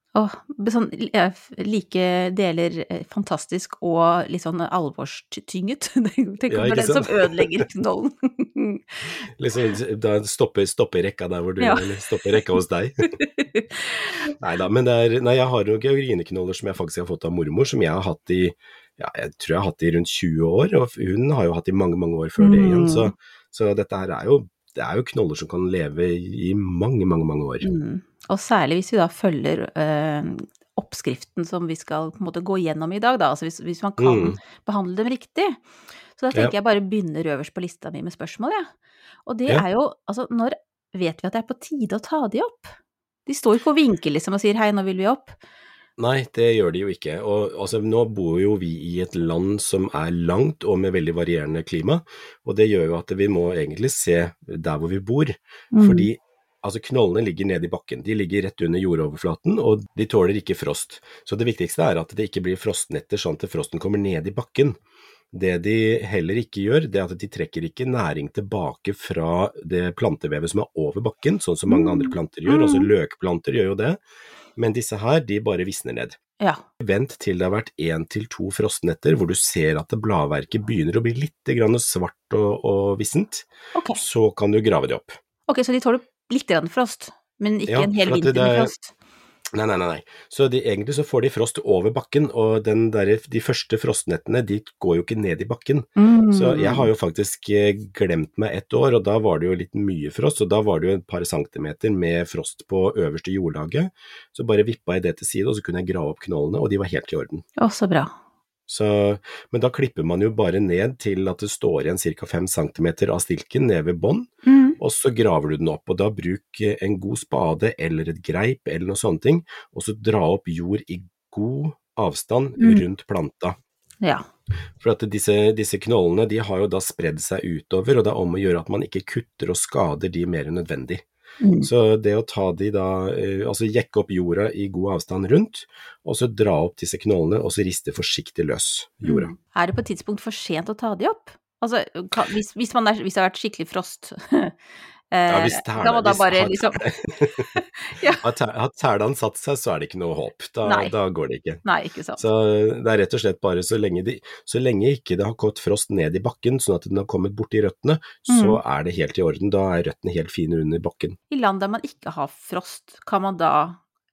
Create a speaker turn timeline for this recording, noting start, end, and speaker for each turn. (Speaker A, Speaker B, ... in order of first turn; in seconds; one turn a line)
Speaker A: 0.1-9.1
Speaker B: 6.5-7.6
Speaker B: 9.4-13.0
Speaker A: 13.2-14.3
Speaker B: 14.4-27.6
Speaker A: 22.4-23.1
Speaker A: 27.6-35.6
Speaker B: 34.0-34.4
Speaker A: 36.1-38.7
Speaker A: 39.2-42.7
Speaker A: 43.2-45.4
Speaker B: 46.0-64.8
Speaker A: 55.7-56.1
Speaker B: 65.3-74.0
Speaker A: 71.7-72.9
Speaker B: 74.5-76.2
Speaker B: 76.8-85.2
Speaker A: 83.7-84.0
Speaker A: 85.5-88.9
Speaker B: 87.7-88.7
Speaker B: 89.5-107.4
Speaker A: 96.0-96.9
Speaker A: 107.6-108.1
Speaker B: 108.7-123.5
Speaker A: 114.4-114.8
Speaker A: 122.6-122.8
Speaker B: 124.8-131.0
Speaker A: 131.4-131.7
Speaker B: 131.6-139.3
Speaker A: 139.0-144.6
Speaker A: 145.1-146.8
Speaker B: 145.3-147.5
Speaker A: 147.5-148.2
Speaker B: 148.2-151.6
Speaker A: 150.6-150.9
Speaker A: 151.6-152.2
Speaker B: 152.2-161.2
Speaker A: 158.3-158.6
Speaker A: 161.3-163.8